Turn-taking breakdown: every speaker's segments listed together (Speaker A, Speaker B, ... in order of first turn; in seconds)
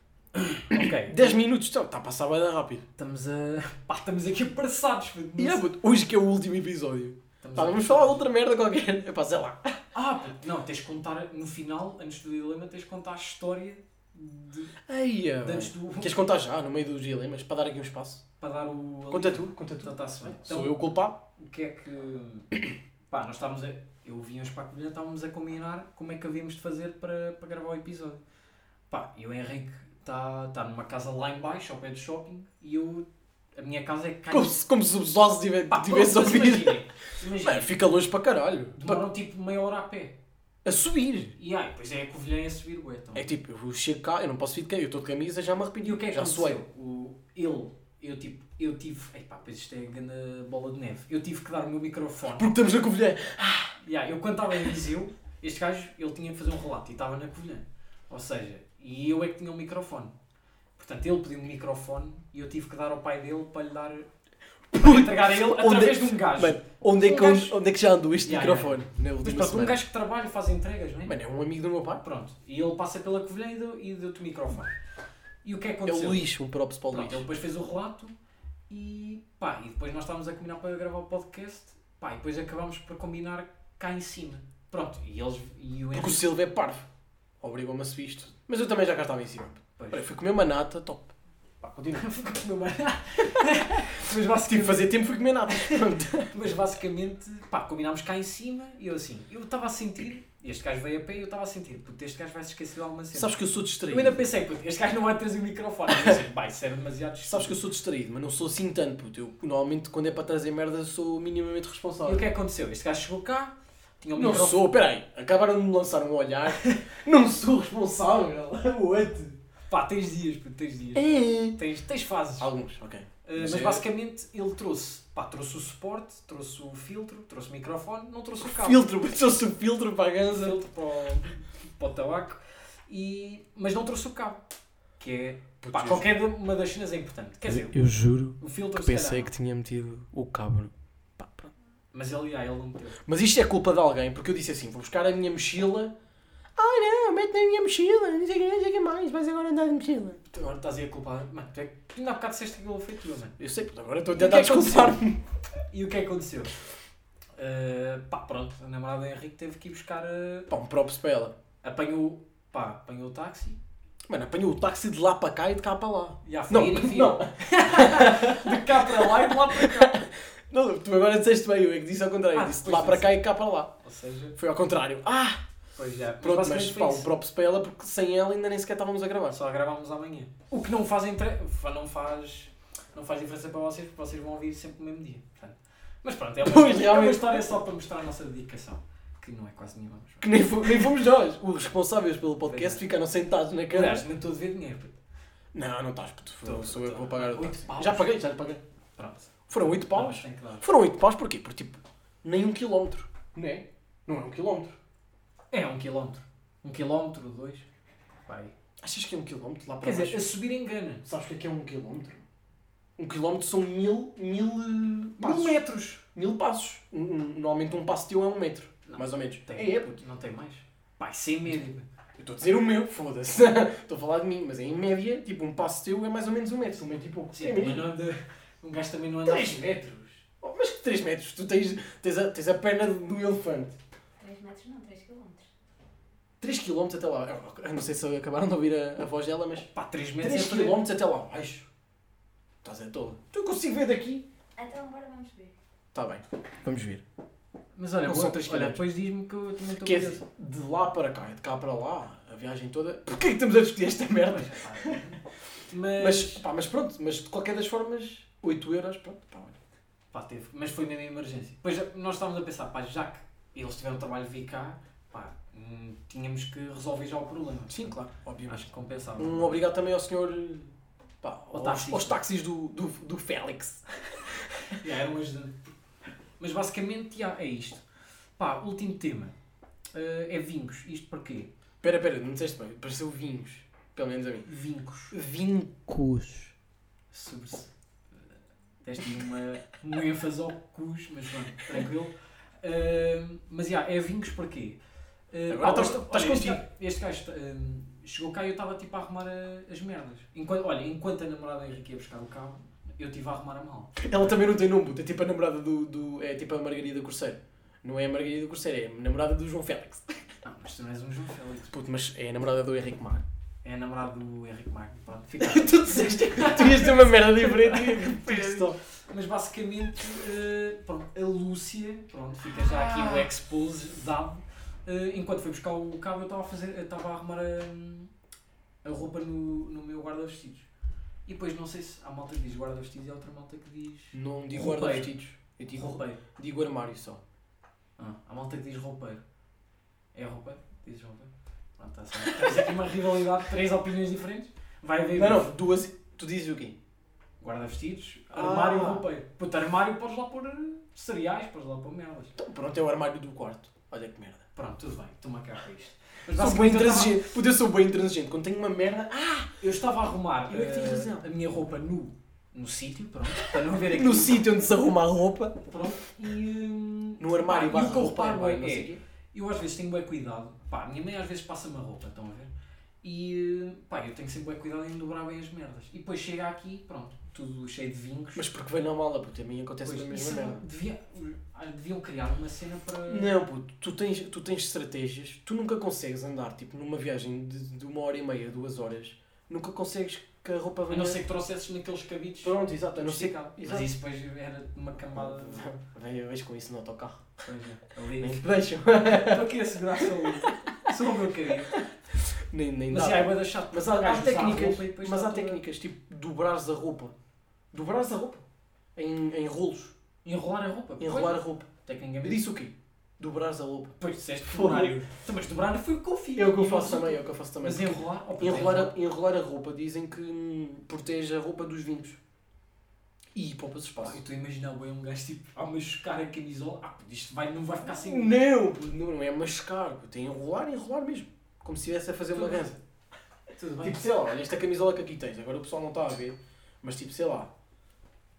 Speaker A: 0.3-1.4, 3.0-5.6, 7.4-8.2, 9.9-14.8, 15.4-16.2, 18.4-20.8, 21.3-22.6, 23.1-28.2, 28.9-34.6, 35.7-37.8, 38.8-40.1, 41.4-43.3, 45.8-52.6, 53.8-60.1, 60.8-64.1, 64.7-67.6, 68.2-71.1, 72.0-74.7, 75.4-76.2, 76.9-78.1, 78.7-86.3, 89.8-90.1, 91.9-94.9, 95.5-95.8, 96.3-103.3, 103.9-107.6, 112.0-114.6, 119.7-122.5, 123.2-128.8, 130.3-134.4, 135.0-137.8, 138.4-139.3, 141.9-143.0, 150.3-153.4, 154.1-155.0, 155.7-156.5, 157.4-160.5, 161.6-163.6, 166.2-170.0, 172.3-173.2, 173.8-174.3, 175.8-177.1, 179.3-190.8, 192.4-192.8, 193.7-195.0, 196.4-198.1, 199.0-200.6, 205.5-207.7, 208.3-208.5, 209.8-211.1, 215.2-216.0, 218.8-221.9, 227.3-230.2, 239.7-240.8, 247.8-250.2, 254.2-256.4, 260.1-268.0, 268.5-269.6, 271.5-272.2, 274.7-275.6, 276.4-277.8, 278.4-279.3, 279.9-281.5, 284.4-285.1, 287.1-287.7, 288.8-294.8, 295.3-304.1, 310.4-311.8, 313.6-328.1, 328.8-330.7, 331.2-335.1, 335.7-336.2, 338.0-339.2, 340.1-345.6, 347.4-352.3, 354.5-357.2, 359.6-364.5, 365.6-372.5, 373.0-378.5, 379.8-383.4, 390.9-395.7, 397.4-398.4, 399.0-401.8, 402.9-405.6, 410.2-412.4, 414.0-418.9, 424.0-428.4, 432.3-432.7, 433.6-434.0
Speaker B: 0.7-2.8, 5.4-9.8, 14.9-18.2, 19.1-21.2, 34.3-36.8, 37.4-39.1, 40.6-41.3, 43.1-46.6, 52.3-53.8, 64.7-69.8, 71.0-72.0, 75.8-77.3, 85.9-86.8, 87.4-92.1, 94.5-96.3, 103.1-104.2, 105.9-106.2, 107.2-112.2, 114.1-119.4, 120.9-121.6, 122.4-123.8, 128.4-130.6, 135.6-136.1, 137.5-141.5, 143.1-145.9, 146.6-150.2, 153.4-155.2, 160.5-161.3, 164.1-173.7, 174.3-175.4, 176.2-179.4, 186.4-187.5, 190.2-194.1, 195.5-198.6, 199.5-204.8, 208.8-210.2, 211.1-212.2, 213.0-215.6, 216.1-220.0, 222.2-227.9, 229.2-229.7, 230.4-233.8, 236.4-239.7, 240.2-241.7, 242.6-244.3, 245.9-247.0, 248.0-248.8, 249.8-255.1, 255.9-259.6, 267.7-274.7, 281.8-284.5, 285.1-286.5, 295.5-296.6, 304.0-310.2, 311.7-313.2, 315.4-318.8, 322.5-323.3, 334.1-337.2, 345.1-346.8, 348.3-349.1, 352.4-354.4, 356.3-359.5, 360.5-361.3, 363.5-365.8, 367.2-369.0, 378.4-380.6, 383.1-391.2, 392.4-393.9, 395.1-397.4, 398.2-400.9, 401.8-407.1, 407.7-408.4, 408.9-409.9, 411.0-411.7, 412.2-415.0, 416.4-422.2, 423.3-424.2, 427.8-432.8, 433.8-437.5
Speaker C: 234.2-235.5, 244.6-245.5